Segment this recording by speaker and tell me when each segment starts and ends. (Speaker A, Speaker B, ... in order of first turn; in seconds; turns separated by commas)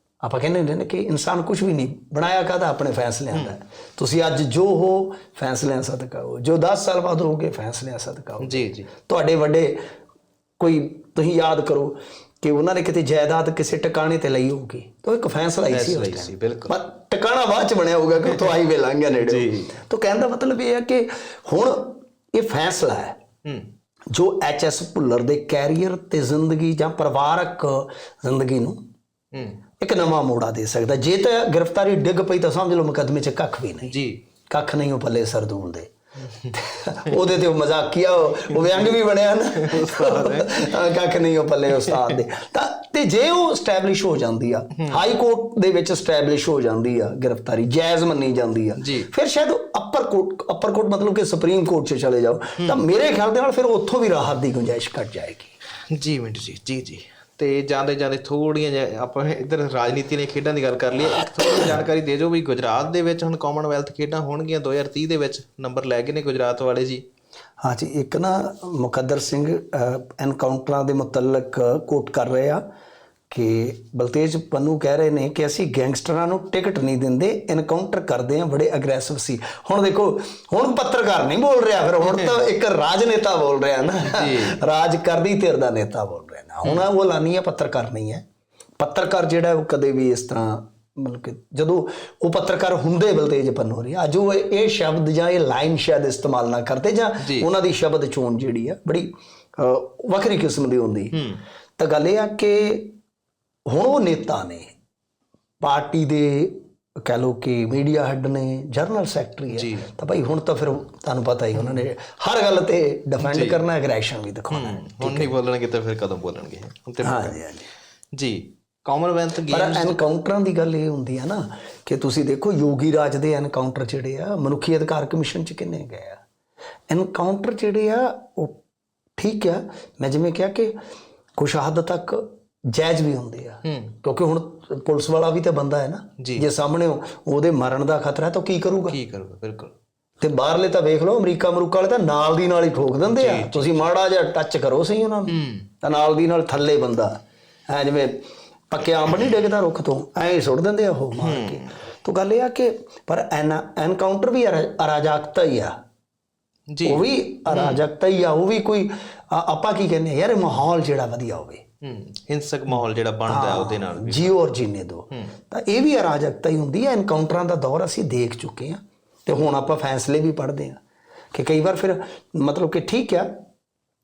Speaker A: 0.2-9.8, Speaker B: 8.4-8.9, Speaker A: 10.6-23.2, Speaker B: 15.7-16.8, Speaker B: 19.2-19.7, Speaker B: 23.4-23.7, Speaker A: 24.1-28.8, Speaker B: 29.3-29.6, Speaker A: 29.8-34.0, Speaker B: 33.9-34.2, Speaker A: 34.5-35.9, Speaker A: 36.5-55.5, Speaker B: 38.5-38.9, Speaker B: 39.5-40.7, Speaker B: 41.8-42.1, Speaker B: 48.8-49.1, Speaker B: 52.6-52.8, Speaker B: 55.9-67.0, Speaker A: 67.6-72.6, Speaker A: 73.3-88.2, Speaker B: 84.0-84.6, Speaker A: 88.8-101.2, Speaker B: 97.2-97.5, Speaker B: 101.1-101.4, Speaker A: 101.8-102.9, Speaker A: 103.7-104.7, Speaker A: 105.6-115.3, Speaker B: 109.5-109.9, Speaker B: 113.2-113.6, Speaker B: 114.5-117.4, Speaker A: 117.0-117.7, Speaker B: 118.1-120.0, Speaker A: 119.5-126.2, Speaker A: 126.9-128.6, Speaker A: 129.2-130.7, Speaker A: 131.4-139.0, Speaker B: 133.6-133.9, Speaker B: 136.2-136.4, Speaker B: 138.9-139.7, Speaker A: 140.2-155.7, Speaker B: 143.1-143.9, Speaker B: 145.3-145.7, Speaker B: 151.2-151.8, Speaker B: 156.7-157.8, Speaker A: 156.8-161.6, Speaker B: 161.8-164.3, Speaker A: 162.7-170.8, Speaker A: 171.3-173.3